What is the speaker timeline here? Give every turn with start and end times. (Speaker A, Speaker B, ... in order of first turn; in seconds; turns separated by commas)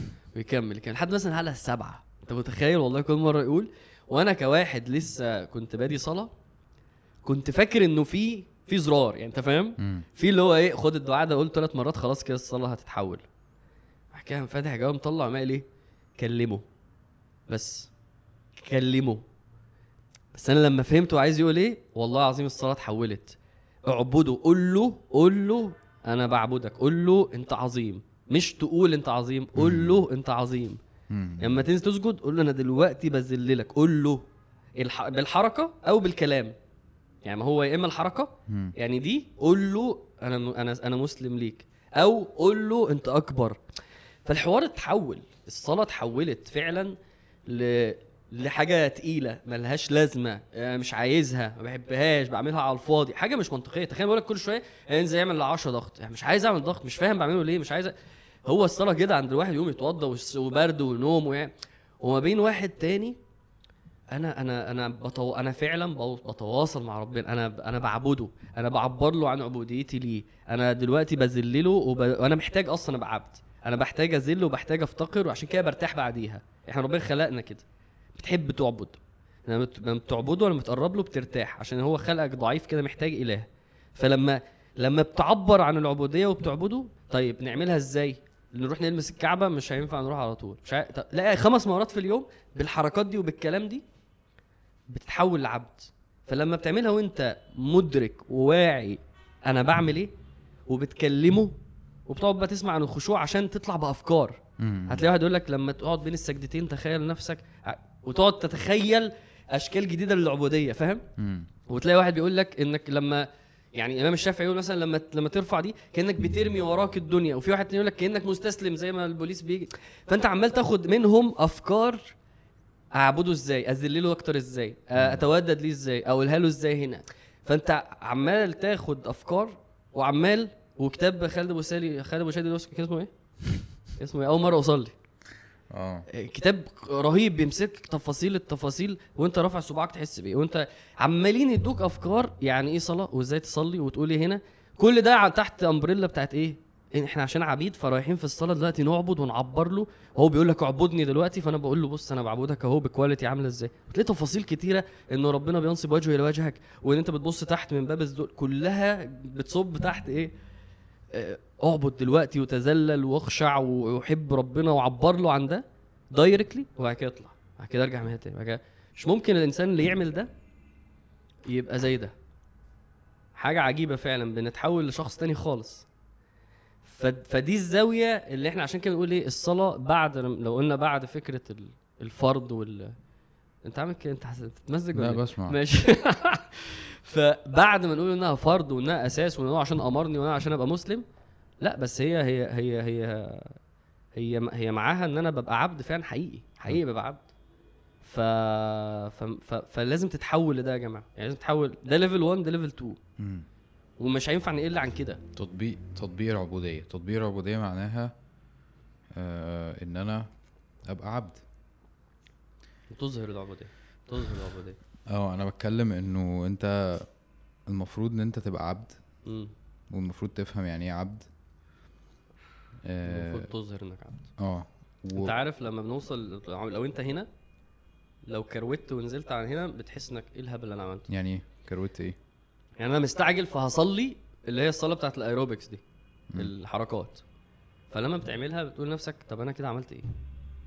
Speaker A: 0.3-6.3, Speaker A: 7.2-13.2, Speaker B: 9.8-10.0, Speaker A: 14.1-15.6, Speaker A: 16.2-16.6, Speaker A: 17.5-17.9, Speaker A: 18.6-19.2, Speaker A: 20.3-30.8, Speaker B: 29.6-30.0, Speaker B: 31.1-31.6, Speaker A: 31.4-34.2, Speaker A: 34.8-36.5, Speaker A: 37.2-43.6, Speaker B: 38.5-38.7, Speaker A: 44.2-46.9, Speaker A: 47.5-57.9, Speaker A: 58.4-63.2, Speaker A: 64.1-77.6, Speaker A: 78.2-93.8, Speaker A: 94.9-100.1, Speaker A: 100.7-111.0, Speaker B: 104.6-105.0, Speaker B: 111.2-111.5, Speaker A: 111.7-122.1, Speaker A: 122.9-133.1, Speaker B: 125.0-125.2, Speaker A: 134.0-134.9, Speaker B: 135.7-136.1, Speaker A: 136.1-160.3, Speaker A: 161.1-170.3, Speaker A: 171.4-172.1, Speaker A: 173.3-175.8, Speaker A: 176.8-182.9, Speaker A: 183.6-191.0, Speaker B: 184.9-185.6, Speaker A: 191.6-193.6, Speaker A: 194.1-197.2, Speaker A: 198.0-203.0, Speaker B: 203.2-203.4, Speaker A: 204.0-205.2, Speaker B: 205.3-208.1, Speaker B: 209.1-210.3, Speaker B: 210.8-211.4, Speaker A: 212.9-214.8, Speaker B: 215.1-217.1, Speaker B: 217.7-219.0, Speaker A: 219.2-219.5, Speaker B: 219.9-221.3, Speaker B: 222.8-223.5, Speaker A: 223.0-224.3, Speaker B: 224.4-225.3, Speaker A: 225.1-227.3, Speaker A: 228.3-231.1, Speaker B: 231.1-232.2, Speaker A: 232.8-235.8, Speaker A: 236.3-237.2, Speaker A: 237.9-240.1